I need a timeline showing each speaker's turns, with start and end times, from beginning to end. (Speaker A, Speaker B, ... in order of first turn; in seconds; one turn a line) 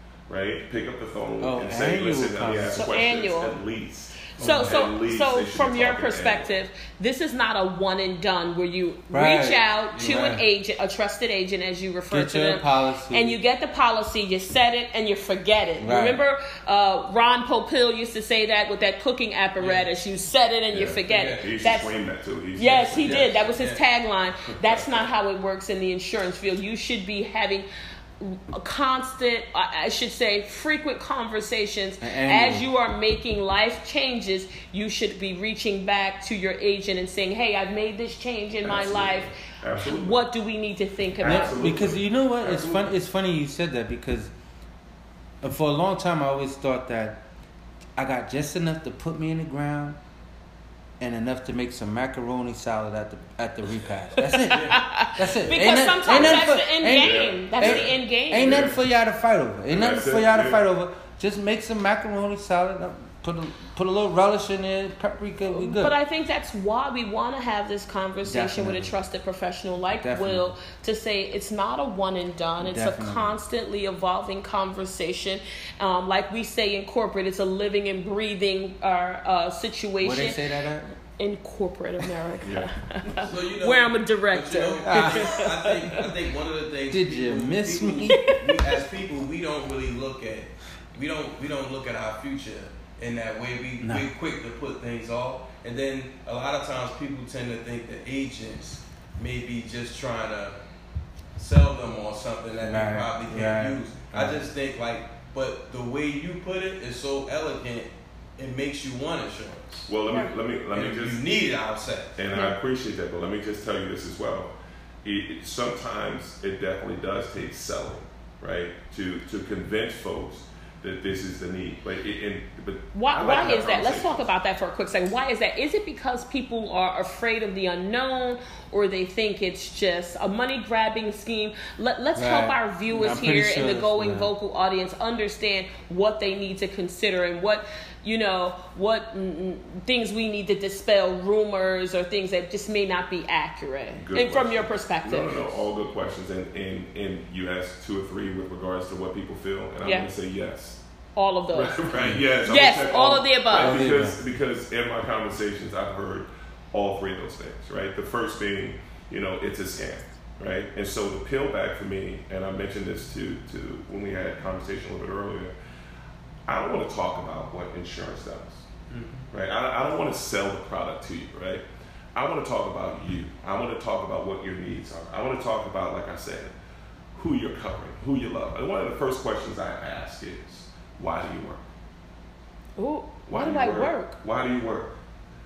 Speaker A: 0.3-6.5
Speaker B: 1.4-2.9
Speaker C: 2.7-3.5
Speaker C: 4.4-21.9
Speaker D: 4.4-4.8
Speaker B: 9.1-10.4
Speaker D: 9.9-10.3
Speaker B: 12.1-13.4
Speaker B: 15.8-16.2
Speaker D: 19.6-19.9
Speaker A: 20.7-23.6
Speaker D: 21.1-21.5
Speaker C: 22.6-27.7
Speaker D: 22.9-23.8
Speaker A: 24.4-25.1
Speaker C: 28.2-41.8
Speaker B: 32.0-32.7
Speaker A: 38.6-40.2
Speaker A: 41.2-42.9
Speaker B: 41.2-44.3
Speaker B: 45.4-47.2
Speaker B: 48.0-50.0
Speaker B: 51.0-66.0
Speaker C: 54.2-58.7
Speaker D: 54.5-55.8
Speaker A: 56.1-58.8
Speaker A: 59.7-60.6
Speaker C: 65.5-80.4
Speaker B: 68.3-69.0
Speaker B: 70.0-70.5
Speaker B: 72.6-73.4
Speaker B: 80.0-80.9
Speaker C: 81.2-86.0
Speaker A: 82.4-83.3
Speaker D: 83.2-100.6
Speaker B: 84.9-85.4
Speaker B: 86.9-88.4
Speaker B: 93.8-94.1
Speaker D: 101.4-109.9
Speaker B: 102.6-104.5
Speaker A: 109.9-111.2
Speaker D: 110.7-112.2
Speaker A: 112.2-114.5
Speaker A: 115.0-124.3
Speaker C: 122.9-145.4
Speaker B: 132.2-134.3
Speaker A: 144.0-150.8
Speaker C: 149.8-150.1
Speaker C: 151.2-151.8
Speaker A: 151.5-165.5
Speaker B: 151.9-152.2
Speaker C: 152.4-153.8
Speaker B: 153.5-154.2
Speaker A: 166.5-168.6
Speaker D: 168.9-169.3
Speaker A: 169.3-176.5
Speaker A: 177.1-181.6
Speaker C: 182.8-184.2
Speaker A: 183.3-185.0